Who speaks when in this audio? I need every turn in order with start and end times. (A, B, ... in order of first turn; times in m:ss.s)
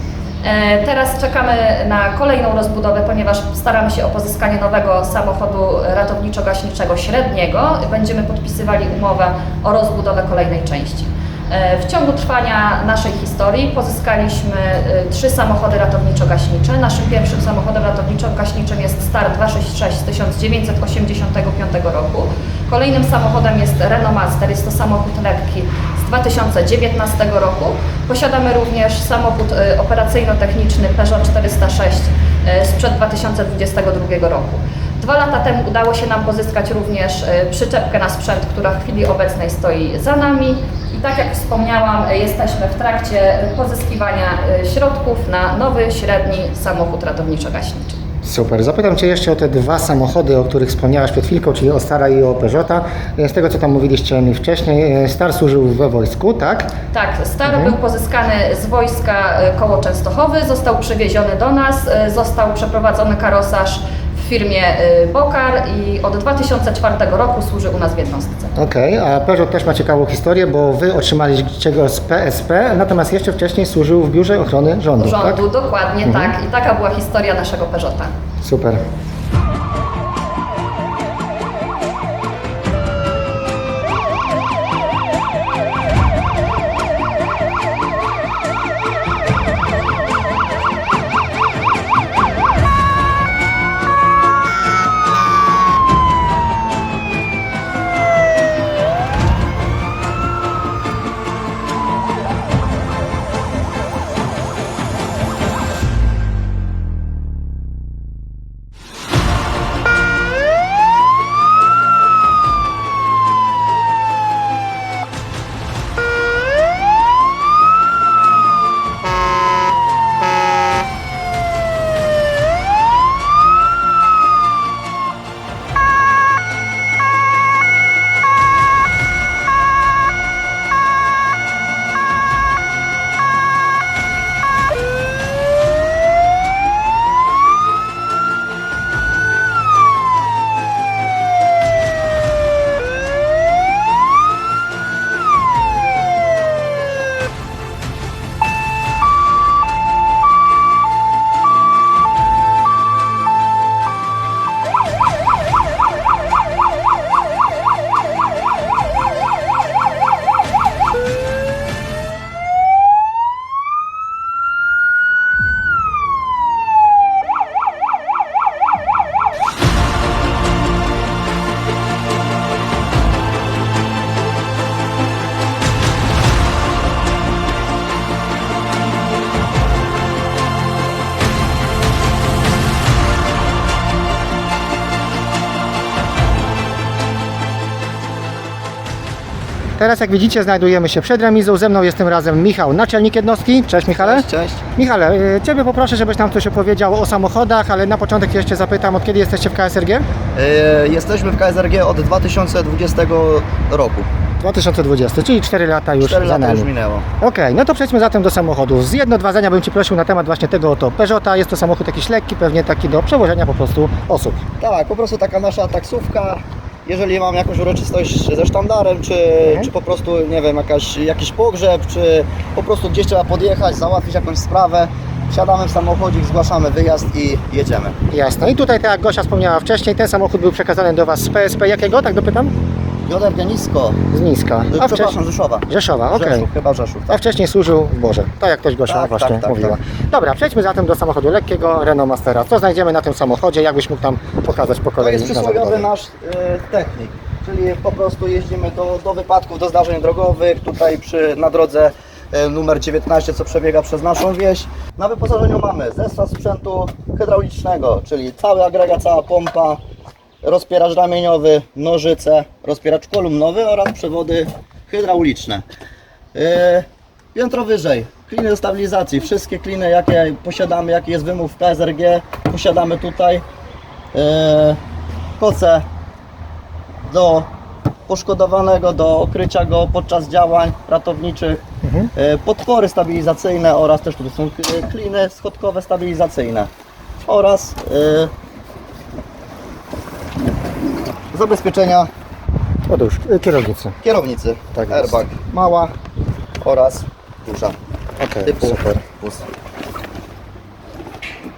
0:00.4-0:48.0 A
0:48.2-0:56.7 B
0:56.9-1:08.6 A
0:57.5-0:57.8 B
1:08.6-1:15.4 B
1:15.0-1:18.2 A
1:16.0-1:16.3 B
1:18.4-1:18.8 B
3:09.8-3:20.0 B
3:13.9-3:14.6 C
3:20.3-3:24.1 C
3:24.4-3:26.7 B
3:26.0-3:27.0 C
3:27.2-3:34.4 B
3:34.6-3:48.0 C
3:48.1-3:52.5 B
3:53.0-3:54.0 C
3:54.1-3:55.1 B
3:54.7-3:57.2 C
3:55.7-3:56.4 B
3:57.1-4:05.9 B
3:58.8-3:59.8 C
4:05.0-4:19.8 C
4:20.4-4:25.6 C
4:26.3-4:33.4 C
4:34.1-4:34.8 C
4:35.4-4:35.8 C
4:37.1-4:37.5 C
4:38.1-4:46.7 C
4:41.8-4:42.1 B
4:47.2-4:48.3 C
4:51.3-4:52.1 C
4:52.9-4:53.9 B
4:54.0-4:55.9 C
4:54.7-4:55.2 B
4:56.6-4:57.8 C
4:58.2-4:59.0 B
4:58.4-4:59.5 C